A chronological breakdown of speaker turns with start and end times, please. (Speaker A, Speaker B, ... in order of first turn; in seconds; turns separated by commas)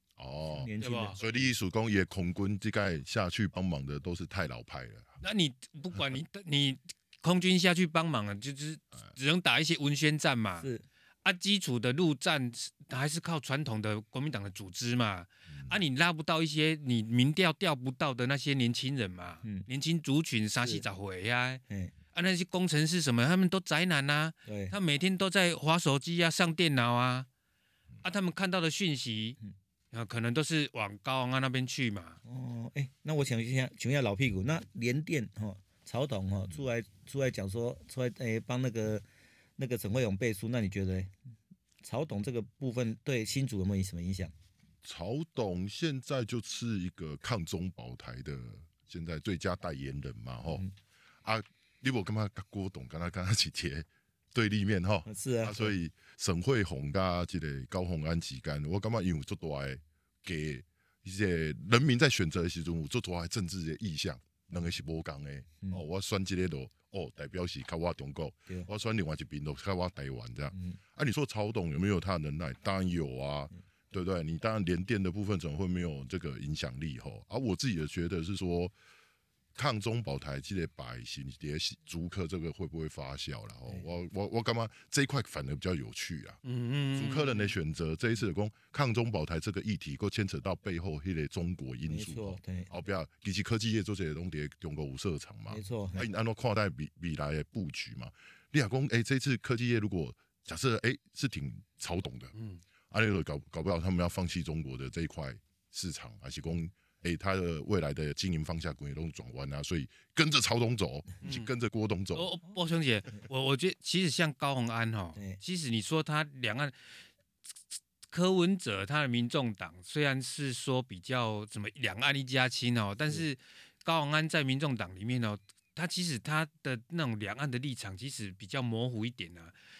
Speaker A: 0.2-5.1, Speaker B: 0.5-1.5, Speaker C: 0.8-1.2, Speaker C: 5.2-10.7, Speaker B: 10.6-10.8, Speaker C: 11.2-21.6, Speaker C: 22.1-27.3, Speaker B: 24.4-24.8, Speaker C: 28.0-29.4, Speaker C: 29.9-32.2, Speaker B: 32.2-39.0, Speaker B: 39.6-41.1, Speaker B: 41.8-44.3, Speaker A: 44.8-50.6, Speaker A: 51.2-78.7, Speaker B: 55.0-55.8, Speaker B: 70.5-70.8, Speaker A: 79.5-86.4, Speaker C: 86.4-87.5, Speaker A: 86.9-102.3, Speaker B: 91.9-92.7, Speaker B: 95.5-96.1, Speaker C: 102.3-102.6, Speaker A: 102.9-112.3, Speaker C: 111.2-111.5, Speaker C: 112.1-116.7, Speaker C: 118.1-129.5